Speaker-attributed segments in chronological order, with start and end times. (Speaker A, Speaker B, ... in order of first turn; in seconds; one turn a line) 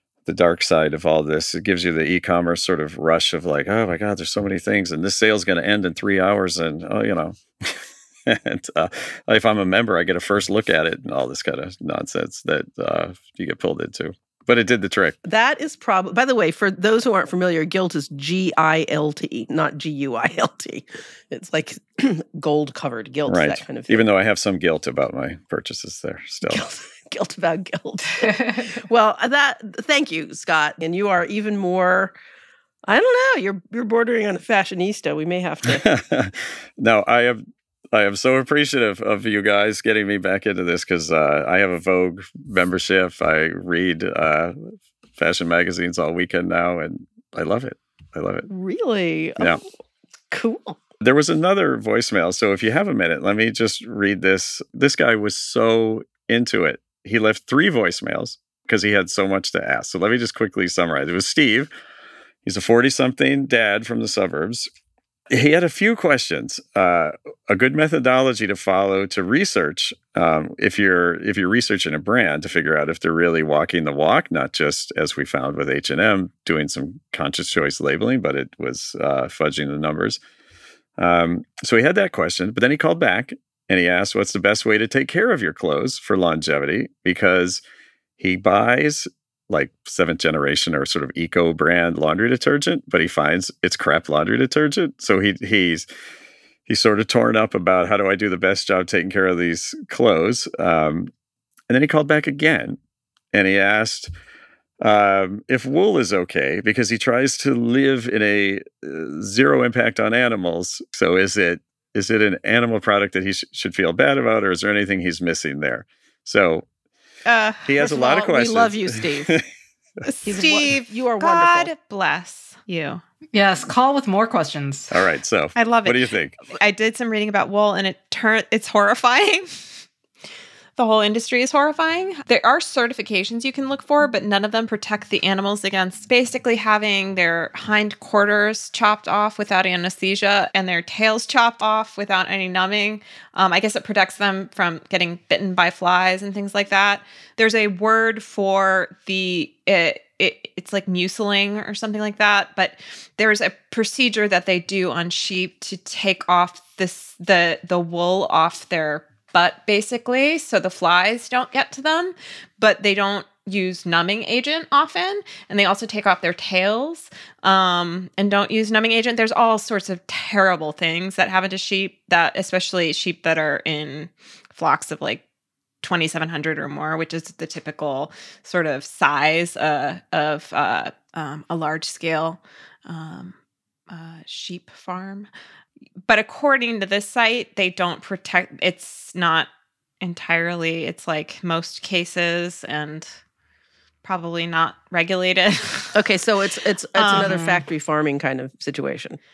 Speaker A: 0.2-15.2
Speaker B: 15.2-24.1
Speaker A: 23.2-26.6
Speaker B: 26.5-32.1
Speaker C: 28.2-28.7
Speaker B: 32.9-35.8
Speaker A: 35.7-44.5
Speaker A: 45.2-48.5
Speaker B: 48.5-49.6
Speaker B: 50.3-50.8
Speaker A: 51.0-61.7
Speaker A: 62.4-64.7
Speaker A: 65.3-80.2
Speaker A: 81.0-87.6
Speaker A: 88.2-95.8
Speaker A: 96.7-101.1
Speaker A: 101.7-102.8
Speaker A: 103.3-104.1
Speaker A: 104.8-116.6
Speaker D: 117.2-117.7
Speaker A: 117.7-119.4
Speaker B: 117.8-119.3
Speaker D: 120.0-123.0
Speaker B: 120.2-121.7
Speaker C: 123.3-124.9
Speaker A: 124.9-126.4
Speaker D: 125.5-129.7
Speaker D: 130.8-175.2
Speaker D: 175.8-183.3
Speaker D: 183.9-185.3
Speaker D: 186.1-189.5
Speaker D: 190.0-193.2
Speaker D: 194.0-196.0
Speaker B: 195.9-199.2
Speaker D: 196.9-197.4
Speaker C: 197.1-197.6